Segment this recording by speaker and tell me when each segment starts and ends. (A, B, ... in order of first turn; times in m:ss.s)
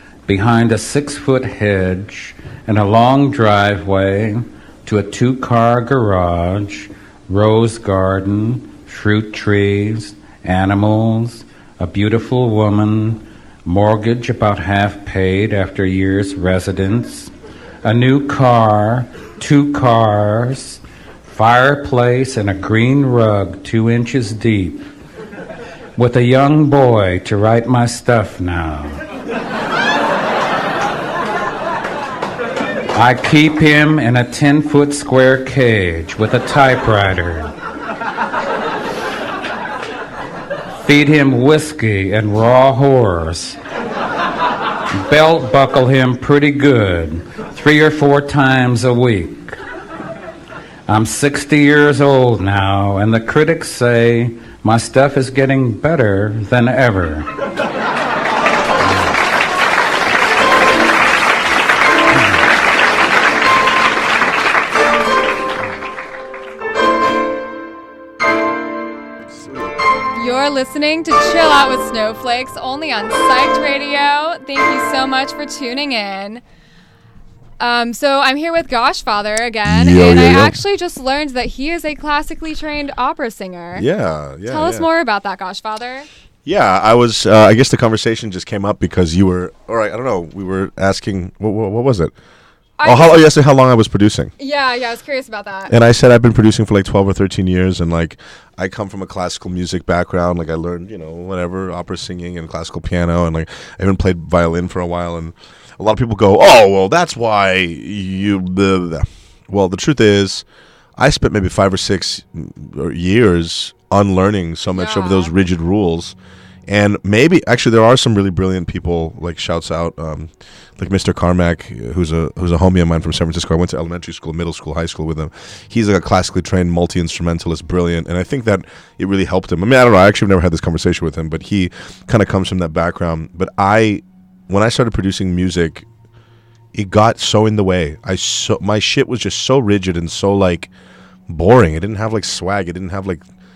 0:00.3-0:17.3 A
0:17.8-0:24.8 A
0:26.0-0:29.0 A
0:32.9-0:37.5 A
0:40.8-0:43.6 A
0:45.0-0:49.6 A
0:50.9-0:57.3 A
1:09.3-1:09.8 B
1:10.2-1:16.4 C
1:17.6-1:23.9 C
1:19.7-1:20.6 B
1:23.8-1:24.9 B
1:24.5-1:26.1 C
1:26.5-1:32.1 B
1:32.8-1:33.3 C
1:32.8-1:34.3 B
1:34.4-1:35.7 C
1:35.7-1:50.4 B
1:51.0-1:56.2 B
1:54.7-1:55.3 C
1:56.7-2:15.9 B
2:16.7-2:20.7 B
2:21.3-2:23.3 B